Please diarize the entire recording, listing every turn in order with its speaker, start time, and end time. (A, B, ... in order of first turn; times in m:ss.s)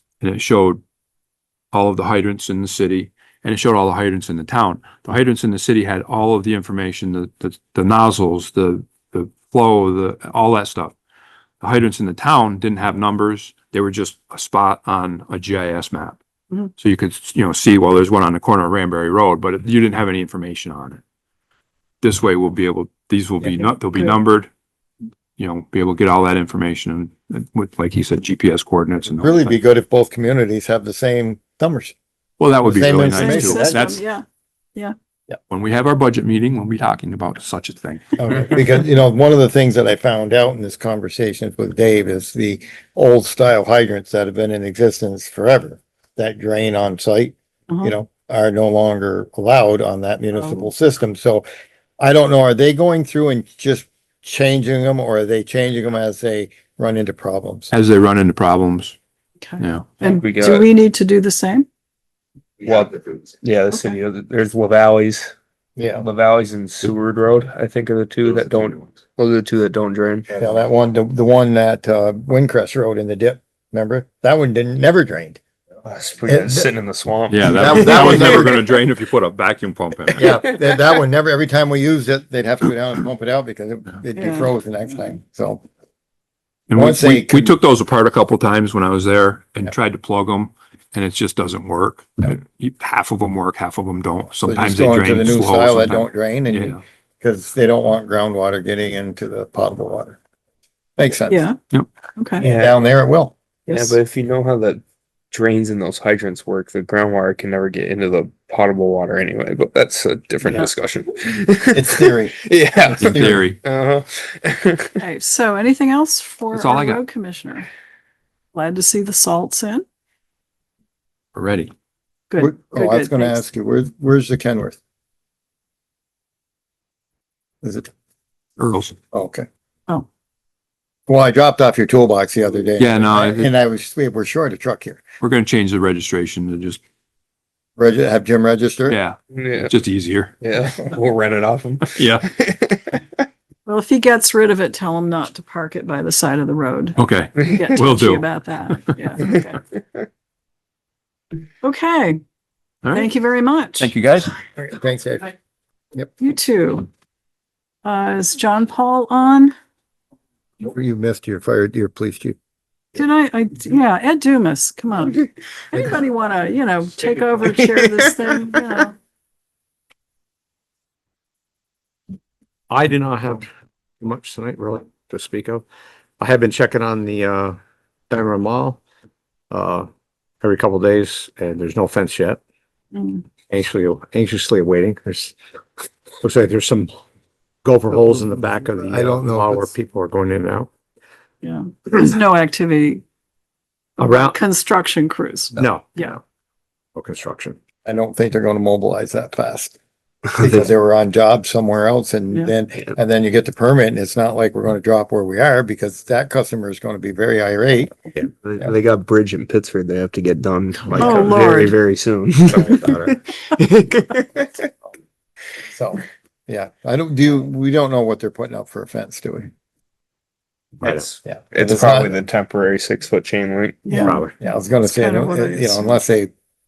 0:00.2-0:00.8 A
0:01.7-0:11.0 A
0:11.6-0:16.2 A
0:16.8-0:21.0 A
0:22.0-0:24.5 A
0:23.8-0:24.2 B
0:25.4-0:29.6 A
0:29.2-0:32.0 C
0:32.4-0:34.0 A
0:32.6-0:33.8 C
0:33.0-0:35.0 B
0:35.5-0:38.3 A
0:38.2-0:51.5 C
0:50.4-0:50.7 B
0:52.0-0:57.7 C
0:57.7-0:59.0 A
0:59.4-1:01.7 B
0:59.6-0:59.9 A
1:00.0-1:00.7 D
1:02.6-1:05.4 D
1:03.7-1:04.0 B
1:05.8-1:06.1 C
1:06.0-1:10.3 D
1:10.4-1:15.4 C
1:15.8-1:18.6 D
1:16.3-1:16.7 C
1:17.3-1:20.2 A
1:17.4-1:18.6 C
1:20.2-1:25.6 C
1:24.2-1:24.5 B
1:26.7-1:36.8 A
1:26.8-1:27.6 C
1:34.4-1:40.2 C
1:41.0-1:41.4 C
1:41.3-1:41.6 B
1:42.2-1:42.4 B
1:42.4-1:43.3 C
1:42.4-1:42.8 D
1:43.7-1:54.9 D
1:43.7-1:44.0 B
1:51.7-1:53.4 C
1:53.0-1:53.6 A
1:55.0-1:57.7 B
1:56.5-1:57.0 A
1:58.5-1:59.8 B
2:01.4-2:01.7 A
2:02.3-2:03.4 B
2:02.4-2:04.8 C
2:07.6-2:07.9 C
2:08.6-2:09.0 A
2:09.1-2:09.5 C
2:11.1-2:15.0 C
2:12.8-2:13.5 A
2:15.2-2:16.8 A
2:17.8-2:19.0 C
2:18.9-2:20.3 A
2:19.3-2:19.7 D
2:20.4-2:20.8 C
2:20.4-2:23.0 D
2:21.9-2:22.3 A
2:23.7-2:29.6 B
2:27.0-2:29.2 A
2:31.6-2:32.2 B
2:32.8-2:33.1 A
2:32.9-2:33.9 B
2:33.8-2:34.3 A
2:34.6-2:35.3 C
2:36.2-2:36.9 B
2:37.8-2:39.5 B
2:40.6-2:42.4 C
2:42.9-2:49.0 B
2:52.7-2:55.7 E
2:56.2-2:57.6 E
2:58.1-2:58.8 E
2:59.5-2:59.9 E
3:00.4-3:02.4 E
3:02.9-3:03.2 B
3:03.5-3:05.4 E
3:06.2-3:07.0 E
3:07.6-3:10.7 E
3:08.8-3:09.7 C
3:11.4-3:13.0 B
3:14.0-3:16.2 B
3:14.0-3:14.4 E
3:15.6-3:16.2 E
3:17.0-3:17.6 E
3:17.8-3:19.8 C
3:20.4-3:27.9 C
3:28.3-3:34.5 D
3:31.0-3:31.8 B
3:32.5-3:33.1 E
3:35.7-3:39.5 C
3:40.8-3:41.1 E
3:40.8-3:43.8 D
3:41.2-3:42.2 C
3:43.8-3:44.2 B
3:43.9-3:44.3 E
3:44.2-3:46.3 C
3:44.8-3:46.0 B